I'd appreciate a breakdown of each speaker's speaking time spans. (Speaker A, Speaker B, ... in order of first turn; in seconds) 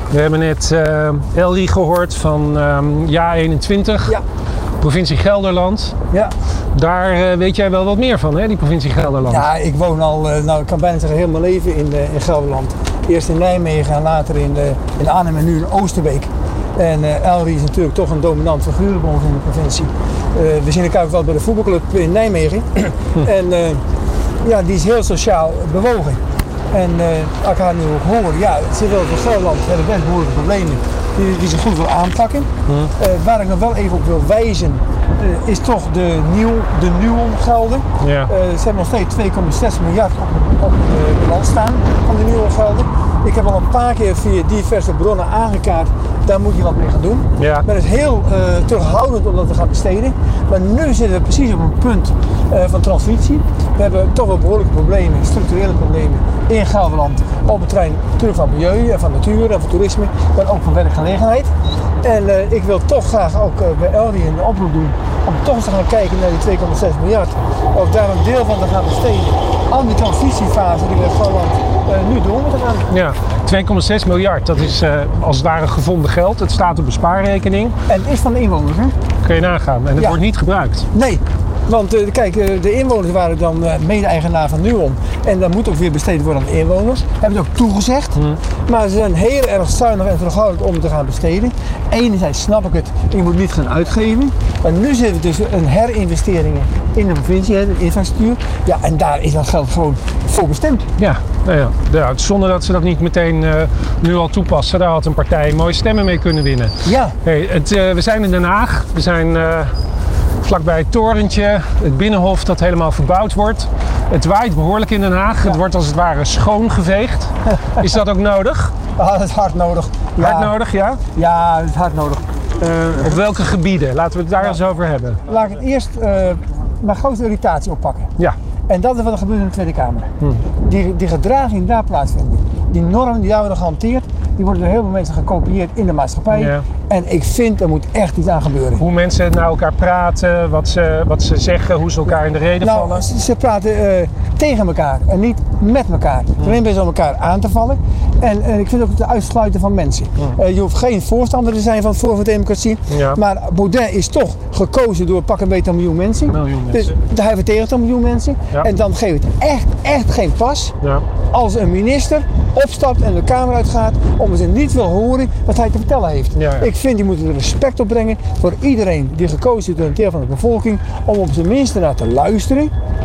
Speaker A: 0.1-4.2, 4.8-5.9, 6.7-9.4, 38.0-38.3, 47.4-47.6, 72.9-77.8, 79.2-80.8, 101.0-106.7, 107.2-109.7, 110.4-118.8, 120.2-121.0, 122.8-125.2, 136.3-136.7, 138.8-143.0, 152.9-153.2, 156.3-156.9, 166.4-166.7
Speaker B: 9.2-23.8, 24.4-26.2, 26.7-61.5, 62.0-72.9, 77.9-78.9, 80.9-100.8, 106.8-107.2, 118.9-120.5, 121.1-123.2, 125.2-128.1, 128.7-138.8, 142.1-172.7